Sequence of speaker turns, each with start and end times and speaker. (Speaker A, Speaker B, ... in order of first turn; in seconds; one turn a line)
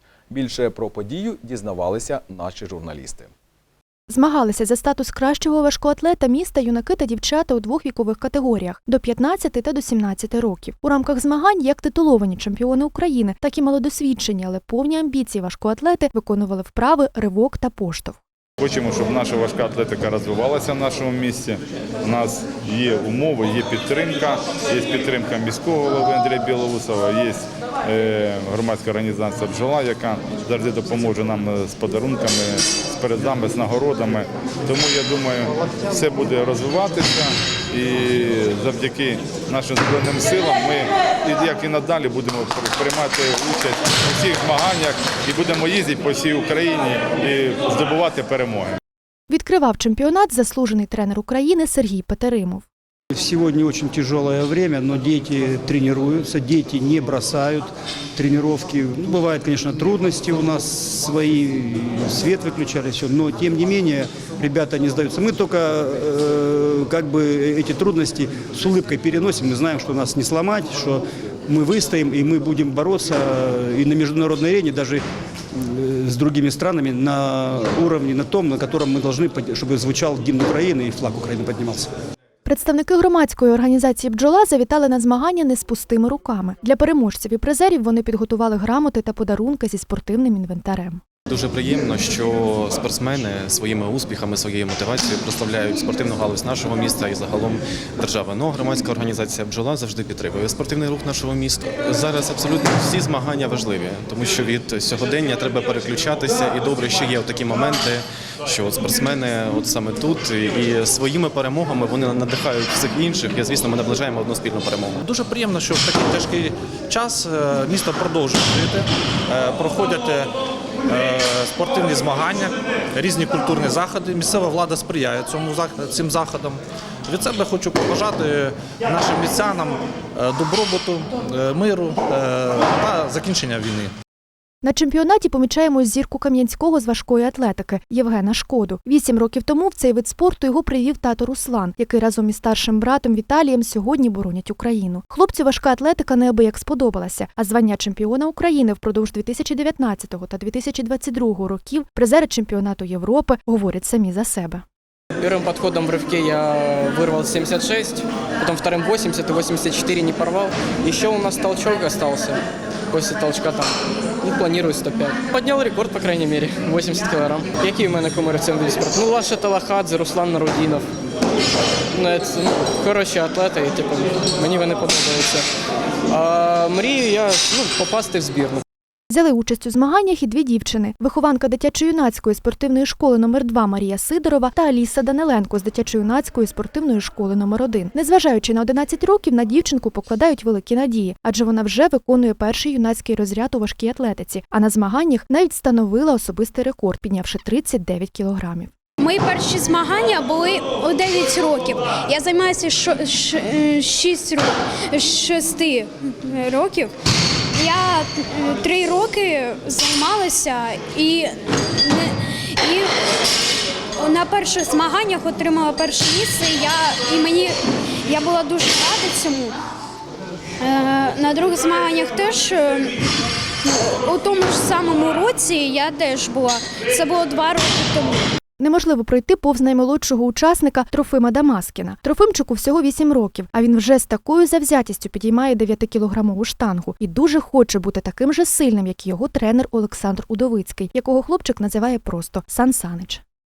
Speaker A: 0.3-3.3
Speaker B: 4.1-18.2
Speaker C: 18.6-48.8
Speaker B: 49.3-52.6
Speaker D: 53.1-75.0
Speaker D: 75.5-81.9
Speaker B: 82.5-91.0
Speaker E: 91.3-115.0
Speaker F: 115.0-120.3
Speaker F: 120.9-133.9
Speaker B: 134.6-154.6
Speaker G: 155.2-170.9
Speaker G: 171.9-175.5
Speaker G: 176.1-178.6
Speaker B: 179.1-198.7
Speaker H: 199.0-206.9
Speaker H: 207.6-212.9
Speaker H: 214.0-219.6
Speaker H: 220.6-222.9
Speaker H: 223.6-228.3
Speaker B: 228.6-243.2